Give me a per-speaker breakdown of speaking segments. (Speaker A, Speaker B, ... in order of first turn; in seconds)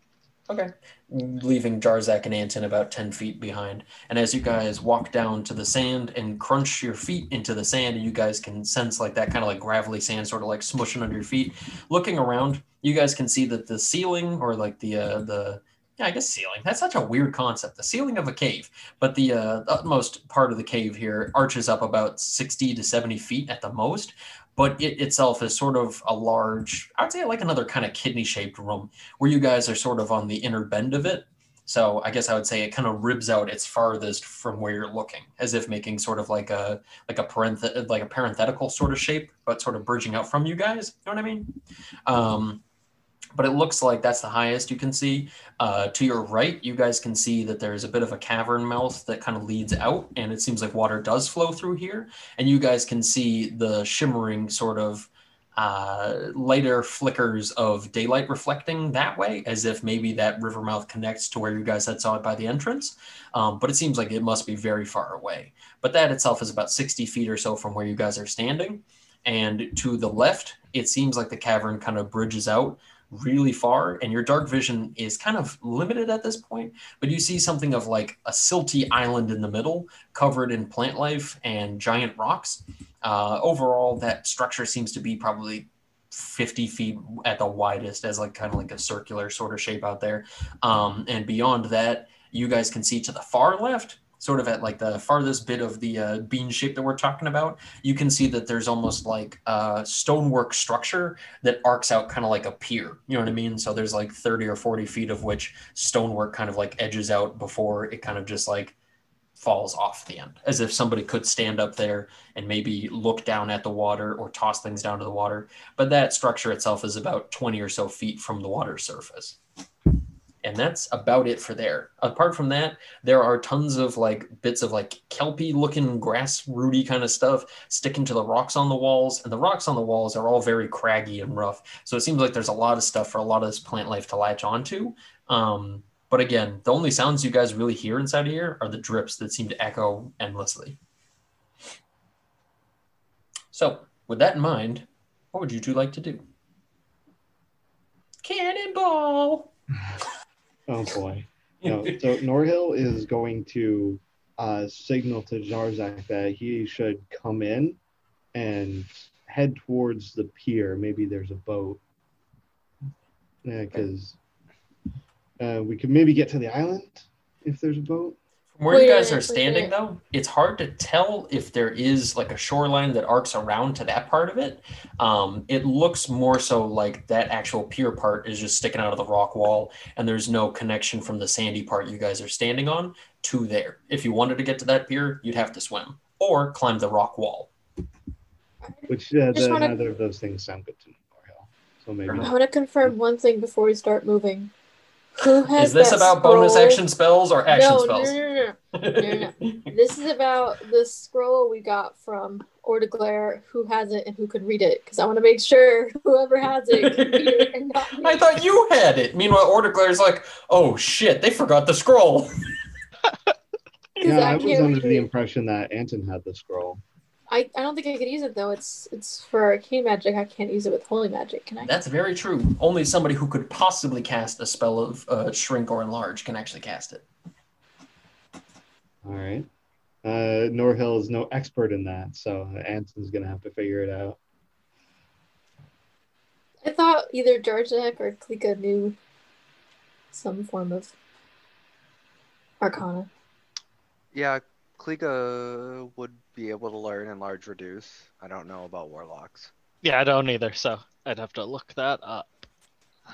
Speaker A: 0.5-42.6, 43.3-108.8, 109.4-119.4, 120.4-140.8, 143.5-146.2, 148.2-149.5, 151.6-152.0, 168.6-187.5, 192.1-192.3, 195.5-198.2, 198.8-199.7, 206.7-212.3, 214.0-214.5, 221.6-227.0
Speaker B: 150.7-157.8, 158.3-161.8, 163.4-164.2, 165.4-168.2, 188.9-192.3, 214.0-216.8, 229.0-229.5, 230.0-234.2
Speaker C: 168.7-169.7, 188.8-189.7, 192.2-194.5, 195.2-196.8, 197.5-208.3, 214.0-215.1, 217.3-221.7, 236.6-239.0, 240.1-240.9, 242.6-243.1
Speaker D: 244.1-249.5
Speaker E: 249.8-252.4